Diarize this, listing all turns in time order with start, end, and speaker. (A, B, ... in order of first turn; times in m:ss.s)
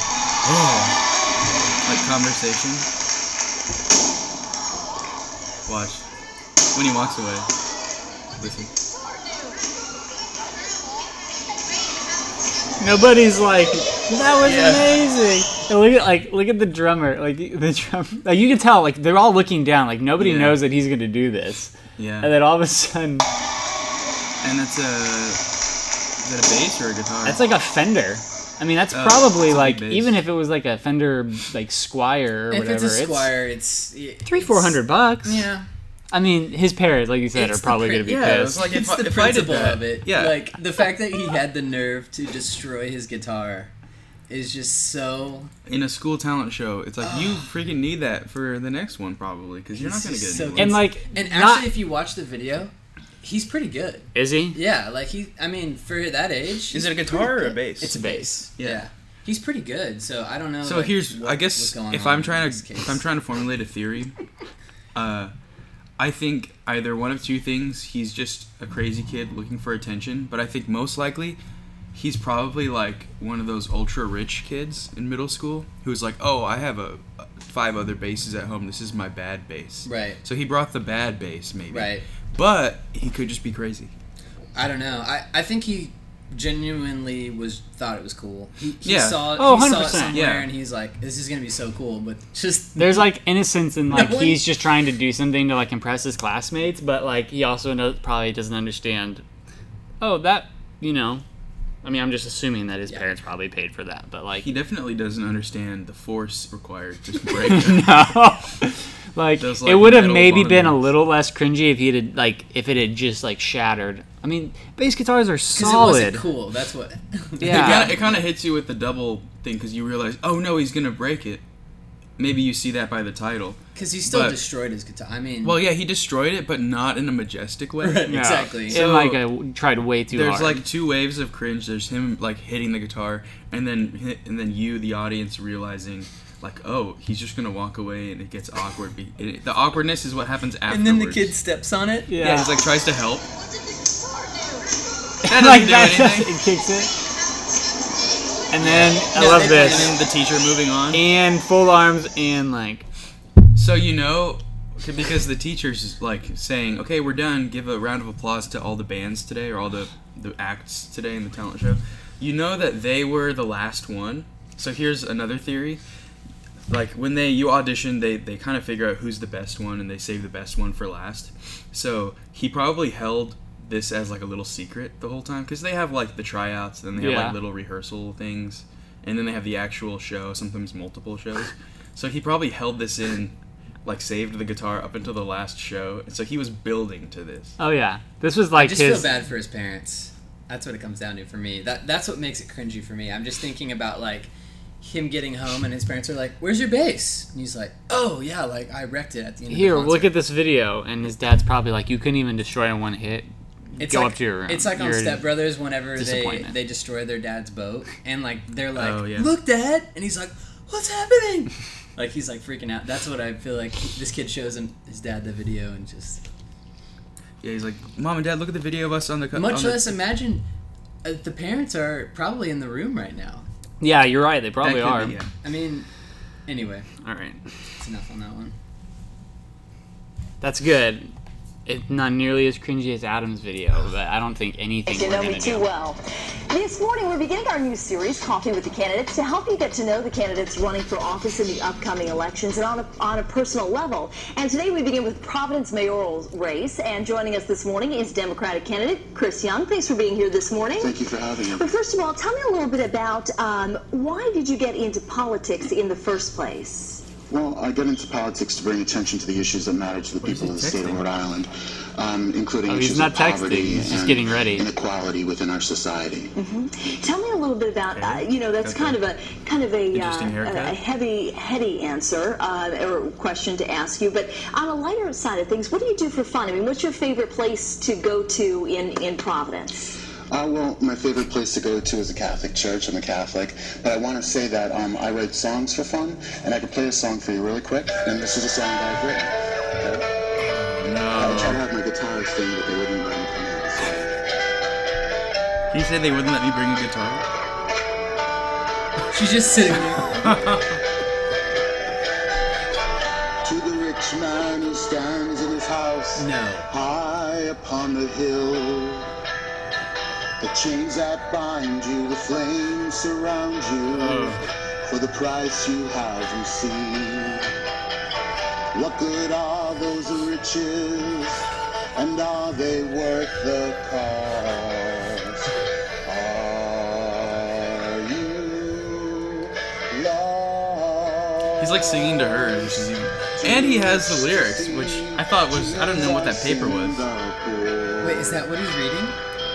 0:00.4-0:01.0 A
0:01.8-0:02.9 A
0:05.6-0:06.0 A
0:06.7-0:07.5 A
0:08.4-0:08.7 A
0:12.8-0:23.3 B
0:14.4-0:15.0 A
0:20.2-0:20.6 A
0:22.0-0:22.3 A
0:24.4-0:25.4 A
0:26.2-0:27.4 A
0:27.2-0:33.3 B
0:28.9-0:30.1 A
0:32.5-0:35.7 C
0:34.2-0:35.5 B
0:36.1-0:38.7 B
0:37.3-0:43.7 C
0:38.0-0:40.4 A
0:44.3-0:45.5 C
0:45.7-0:50.8 A
0:47.0-0:47.4 C
0:49.7-1:03.0 C
0:50.6-0:51.7 B
0:54.1-0:54.6 B
0:56.7-0:58.0 A
0:57.8-0:58.4 B
0:58.6-0:58.8 A
1:00.6-1:04.1 A
1:04.9-1:05.3 A
1:06.0-1:11.4 A
1:11.9-1:23.9 A
1:19.8-1:20.2 C
1:21.7-1:22.0 C
1:24.5-1:33.1 C
1:28.8-1:29.4 A
1:29.4-1:30.2 B
1:30.1-1:30.5 A
1:32.8-1:39.2 B
1:33.9-1:34.5 C
1:40.0-1:41.2 B
1:41.8-1:44.5 B
1:44.4-1:48.0 A
1:47.4-1:56.3 B
1:49.4-1:50.8 A
1:55.5-1:58.2 C
1:57.4-1:58.0 B
1:57.4-2:01.4 A
2:02.2-2:04.4 A
2:03.7-2:05.6 C
2:05.4-2:08.1 A
2:07.8-2:08.8 C
2:08.1-2:10.6 B
2:08.6-2:09.2 A
2:10.1-2:21.3 A
2:20.7-2:22.1 C
2:22.1-2:22.5 B
2:22.2-2:23.3 A
2:25.3-2:26.9 B
2:25.3-2:26.4 A
2:28.5-2:29.9 B
2:28.6-2:30.0 C
2:28.6-2:31.0 A
2:30.9-2:32.8 B
2:33.5-2:45.8 A
2:46.7-3:07.6 A
2:57.0-2:57.4 B
3:07.6-3:09.2 B
3:08.5-3:20.1 C
3:19.5-3:26.6 B
3:23.8-3:36.2 C
3:28.7-3:29.3 A
3:37.4-3:40.0 A
3:39.3-3:40.4 C
3:41.0-3:43.4 C
3:43.8-3:45.2 B
3:44.6-3:45.3 A
3:45.4-3:45.9 C
3:46.4-3:46.9 C
3:47.0-3:47.6 B
3:47.8-3:48.6 C
3:50.4-3:51.1 B
3:51.6-3:55.6 B
3:54.8-4:10.9 D
4:10.8-4:11.7 E
4:11.5-4:17.0 D
4:17.3-4:26.3 E
4:20.2-4:21.1 A
4:22.7-4:24.6 B
4:26.4-4:40.0 D
4:27.9-4:29.0 A
4:29.9-4:30.8 A
4:40.3-4:50.0 E
4:50.4-4:51.6 A
4:51.1-4:54.1 E
4:55.7-4:57.2 A
4:59.1-5:00.3 C
5:00.2-5:00.7 A
5:03.4-5:09.1 E
5:06.2-5:06.7 C
5:10.4-5:17.5 E
5:13.9-5:14.4 B
5:18.7-5:21.4 E
5:21.9-5:25.5 E
5:26.0-5:32.8 E
5:31.6-5:37.0 A
5:33.4-5:38.4 E
5:38.0-5:39.2 C